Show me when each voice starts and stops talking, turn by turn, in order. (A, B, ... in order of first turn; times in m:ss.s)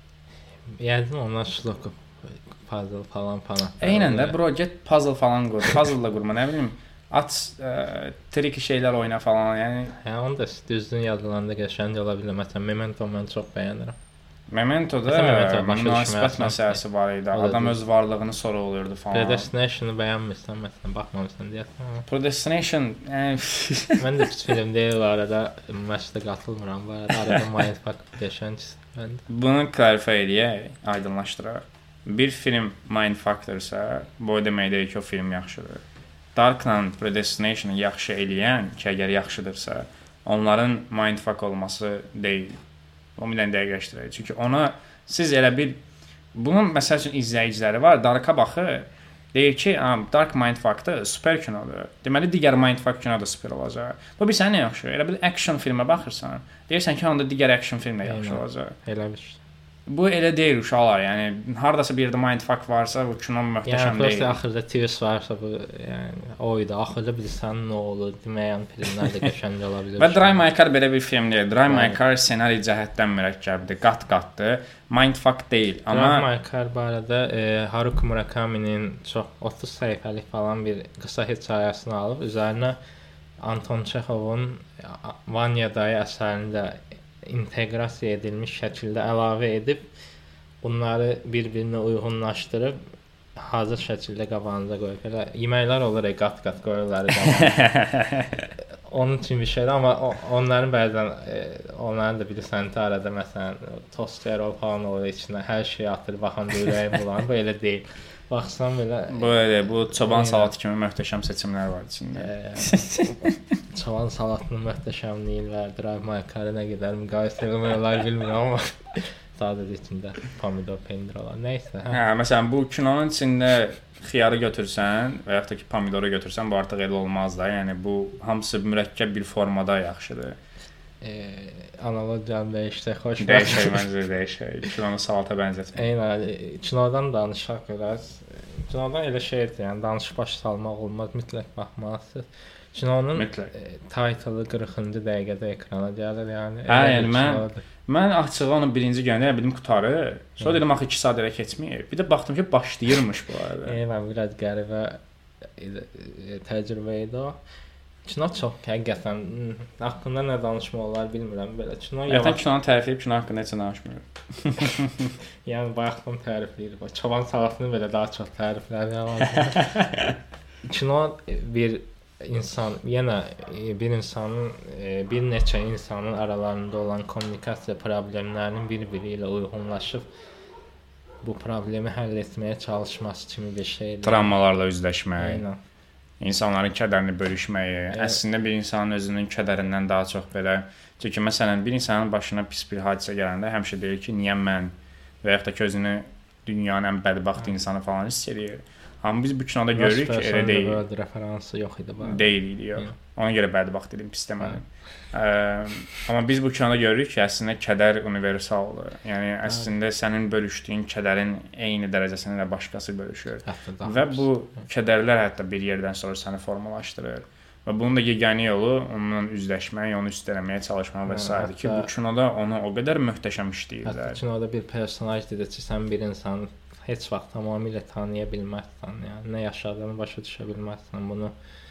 0:00.8-0:04.4 A
0:03.8-0:09.9 B
0:10.0-0:13.9 A
0:14.5-0:19.5 B
0:15.1-0:16.8 A
0:17.3-0:17.8 A
0:19.1-0:22.1 A
0:22.1-0:24.0 B
0:24.0-0:29.2 A
0:29.3-0:35.8 B
0:36.3-0:42.6 B
0:43.2-0:45.8 B
0:46.3-0:58.8 B
0:58.0-0:59.4 A
0:59.9-1:04.3 B
1:03.6-1:10.4 A
1:10.0-1:16.2 B
1:11.7-1:12.0 A
1:15.9-1:22.8 A
1:23.4-1:29.9 A
1:30.6-1:32.8 A
1:33.4-1:37.6 A
1:37.2-1:38.4 B
1:38.9-1:50.5 A
1:49.1-1:53.3 B
1:52.2-1:53.1 A
1:53.7-2:02.0 A
2:01.9-2:10.4 B
2:11.0-2:13.9 A
2:13.2-2:15.8 B
2:15.7-2:27.6 A
2:23.1-2:23.5 B
2:26.7-2:33.8 B
2:33.6-2:37.4 A
2:38.0-2:42.4 A
2:42.1-2:45.1 B
2:45.4-2:50.1 A
2:49.4-2:50.1 B
2:50.6-3:00.1 A
3:01.2-3:04.3 A
3:04.0-3:05.4 B
3:05.2-3:05.6 A
3:06.2-3:20.8 B
3:07.9-3:08.2 A
3:19.7-3:22.9 A
3:22.0-3:44.2 B
3:33.4-3:34.2 A
3:41.1-3:41.9 A
3:43.8-3:51.3 A